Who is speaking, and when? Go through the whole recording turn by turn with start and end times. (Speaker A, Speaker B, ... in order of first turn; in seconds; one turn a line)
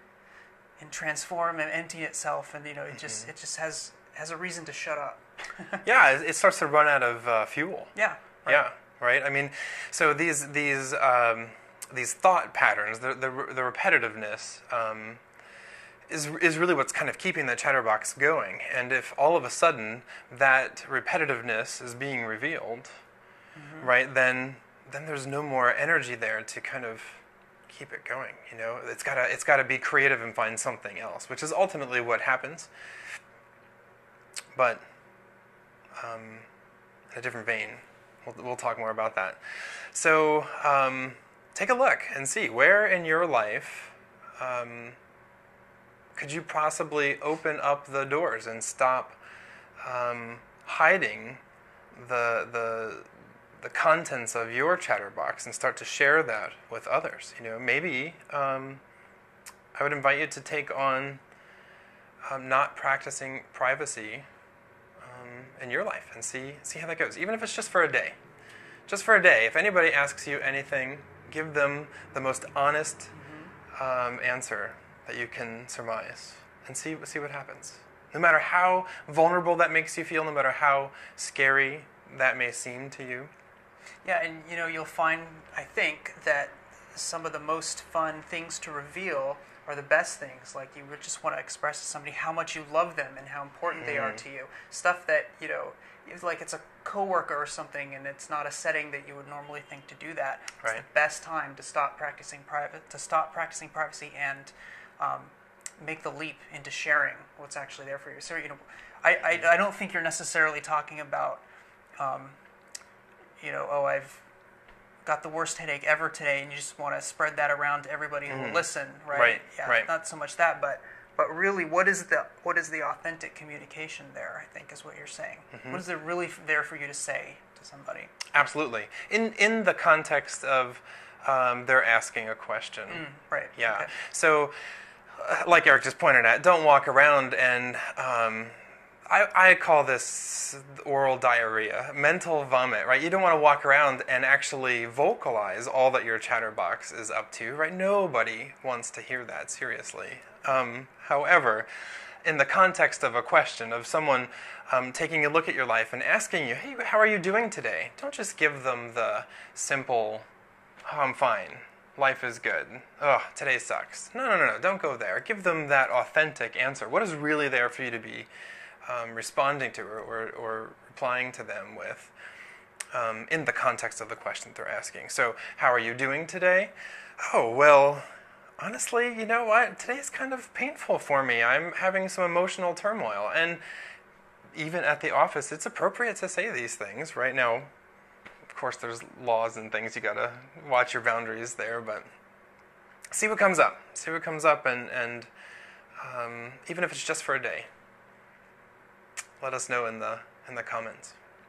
Speaker A: 0.8-5.8
Speaker B: 3.0-3.3
Speaker B: 5.8-7.9
Speaker A: 7.9-8.7
Speaker B: 8.4-15.2
Speaker B: 16.1-22.9
Speaker A: 23.5-23.9
Speaker B: 23.8-32.7
Speaker B: 34.5-34.8
Speaker B: 36.0-36.5
Speaker B: 37.1-45.0
Speaker B: 46.1-49.2
Speaker B: 49.8-51.4
Speaker B: 51.9-53.1
Speaker B: 53.6-58.8
Speaker B: 59.7-61.2
Speaker B: 62.2-64.3
Speaker B: 65.0-68.2
Speaker B: 68.9-73.1
Speaker A: 73.1-73.5
Speaker B: 73.7-83.3
Speaker A: 84.0-111.4
Speaker B: 93.8-94.2
Speaker A: 112.0-112.4
Speaker A: 113.4-114.2
Speaker A: 115.0-128.2
Speaker B: 118.3-119.9
Speaker B: 125.5-125.8
Speaker B: 128.3-134.5
Speaker A: 132.9-133.9
Speaker B: 135.1-138.5
Speaker B: 139.1-151.7
Speaker B: 152.2-160.3
Speaker B: 160.8-168.3
Speaker B: 168.8-172.1
Speaker B: 172.9-178.1
Speaker B: 178.6-183.6
Speaker B: 184.5-187.7
Speaker B: 188.5-192.1
Speaker B: 193.1-195.3
Speaker B: 196.0-197.7
Speaker B: 199.4-201.2